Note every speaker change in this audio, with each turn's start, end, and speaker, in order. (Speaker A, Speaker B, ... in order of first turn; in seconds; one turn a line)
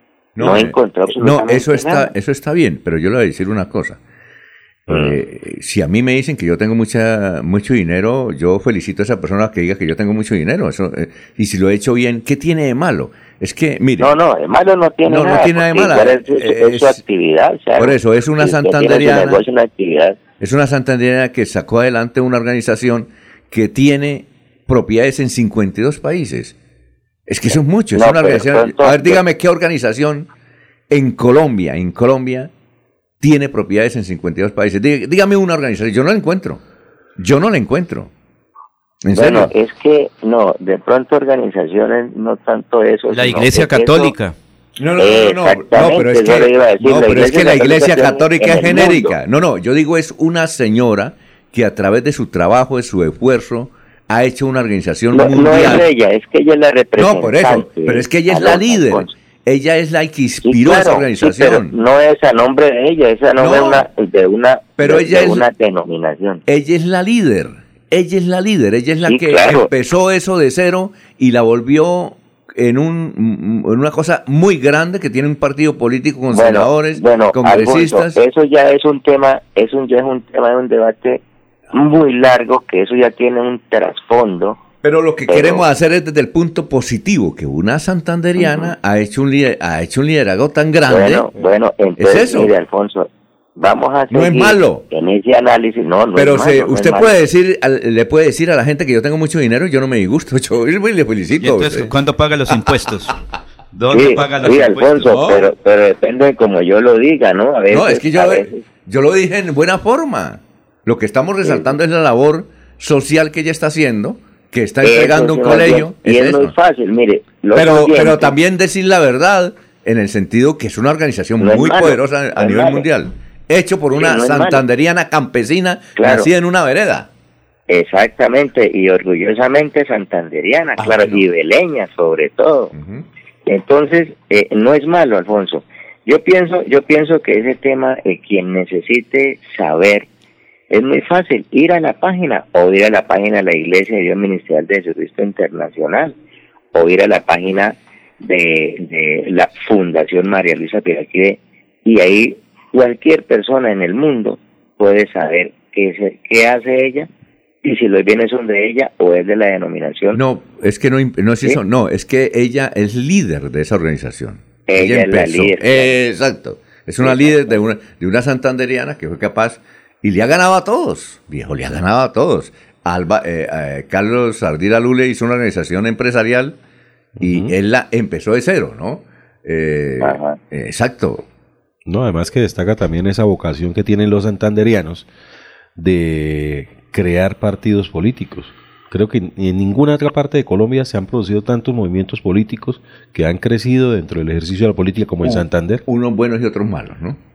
Speaker A: 0.3-4.0
Speaker B: 0.4-2.1
Speaker A: 4.9-14.1
Speaker B: 4.9-5.2
Speaker B: 14.0-20.2
Speaker A: 15.1-17.0
Speaker A: 17.8-19.4
Speaker A: 20.4-26.5
Speaker A: 27.3-30.3
Speaker B: 27.9-29.2
Speaker A: 30.9-32.5
Speaker A: 33.2-36.6
Speaker A: 37.2-38.1
Speaker A: 39.0-39.5
Speaker B: 39.1-44.1
Speaker C: 43.1-44.3
Speaker A: 44.8-55.9
Speaker B: 45.0-49.2
Speaker B: 55.1-59.1
Speaker A: 57.0-61.7
Speaker B: 60.4-66.4
Speaker A: 63.4-63.9
Speaker A: 64.8-65.5
Speaker A: 66.5-78.2
Speaker B: 69.0-69.7
Speaker B: 76.3-81.2
Speaker B: 81.7-84.6
Speaker A: 84.8-91.3
Speaker B: 85.3-85.6
Speaker B: 88.4-88.7
Speaker B: 90.9-97.1
Speaker A: 92.0-92.5
Speaker A: 94.1-94.8
Speaker A: 96.1-101.9
Speaker C: 101.4-103.2
Speaker C: 103.7-105.2
Speaker B: 103.9-108.6
Speaker A: 105.0-105.5
Speaker A: 107.7-116.5
Speaker B: 111.4-111.8
Speaker B: 114.8-118.3
Speaker A: 117.5-127.1
Speaker B: 121.4-122.8
Speaker B: 123.9-124.6
Speaker B: 126.0-126.3
Speaker B: 127.7-132.7
Speaker A: 130.8-131.2
Speaker A: 132.7-133.0
Speaker B: 133.4-140.1
Speaker B: 140.7-146.2
Speaker B: 146.7-157.1
Speaker B: 157.6-160.2
Speaker A: 160.1-176.6
Speaker B: 164.7-165.9
Speaker B: 167.0-167.6
Speaker D: 177.2-177.5
Speaker A: 177.2-181.2
Speaker B: 180.0-180.4
Speaker D: 181.8-185.1
Speaker D: 185.8-195.8
Speaker A: 195.9-197.2